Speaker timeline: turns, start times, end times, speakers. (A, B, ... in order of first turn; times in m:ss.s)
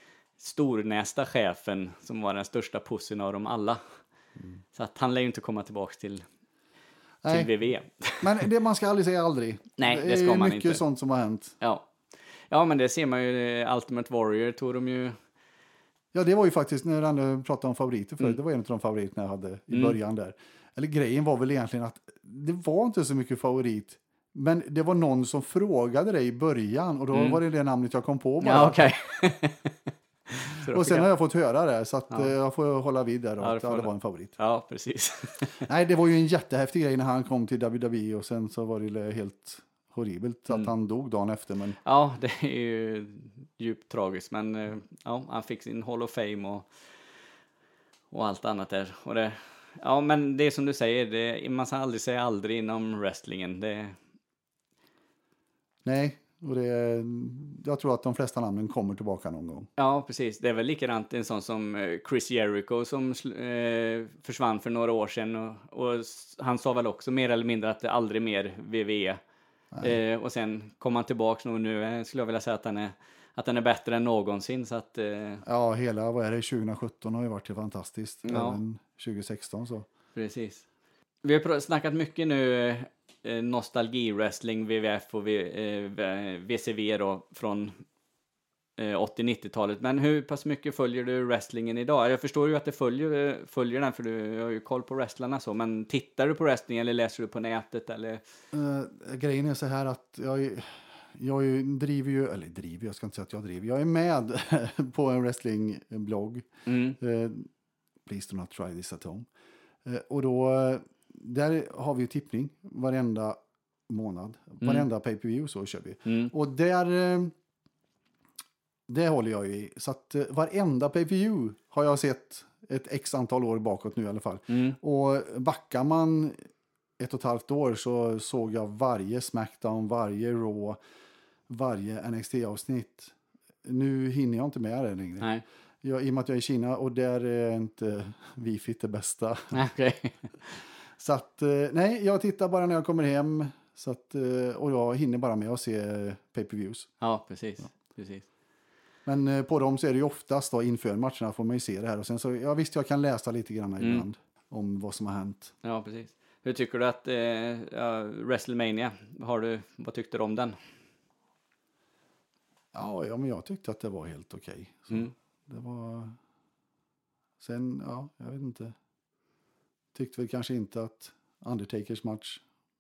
0:00.4-0:04.0 A
0:04.8-0:06.2 A
0:07.2-0:07.5 B
0:07.3-0:08.4 A
0:08.2-0:11.6 B
0:09.8-0:10.8 A
0:11.6-0:11.9 A
0:12.5-0:15.2 A
0:16.1-0:28.8 B
0:19.7-0:20.0 A
0:27.1-0:27.4 A
0:28.4-0:31.1 A
0:30.7-0:34.4 B
0:33.4-0:35.6 A
0:35.6-0:41.8 B
0:41.8-0:46.7 A
0:48.1-0:54.0 A
0:55.8-0:59.7 B
0:59.8-1:09.2 A
1:09.7-1:10.0 B
1:09.8-1:15.4 A
1:15.4-1:19.9 B
1:18.2-1:18.6 A
1:20.2-1:20.6 A
1:21.2-1:27.8 A
1:28.8-1:38.2 A
1:38.5-1:47.5 B
1:46.7-1:47.0 A
1:48.1-1:49.3 B
1:49.8-1:57.3 B
1:56.1-1:56.3 A
1:58.9-2:06.5 B
2:04.5-2:04.8 A
2:07.0-2:10.8 B
2:11.5-2:15.3 B
2:15.8-2:19.6 B
2:19.5-2:20.3 A
2:21.0-2:26.9 B
2:27.0-2:28.3 A
2:29.1-2:35.5 B
2:35.6-2:40.6 A
2:42.7-2:46.2 B
2:47.4-2:48.8 B
2:49.9-2:52.4 B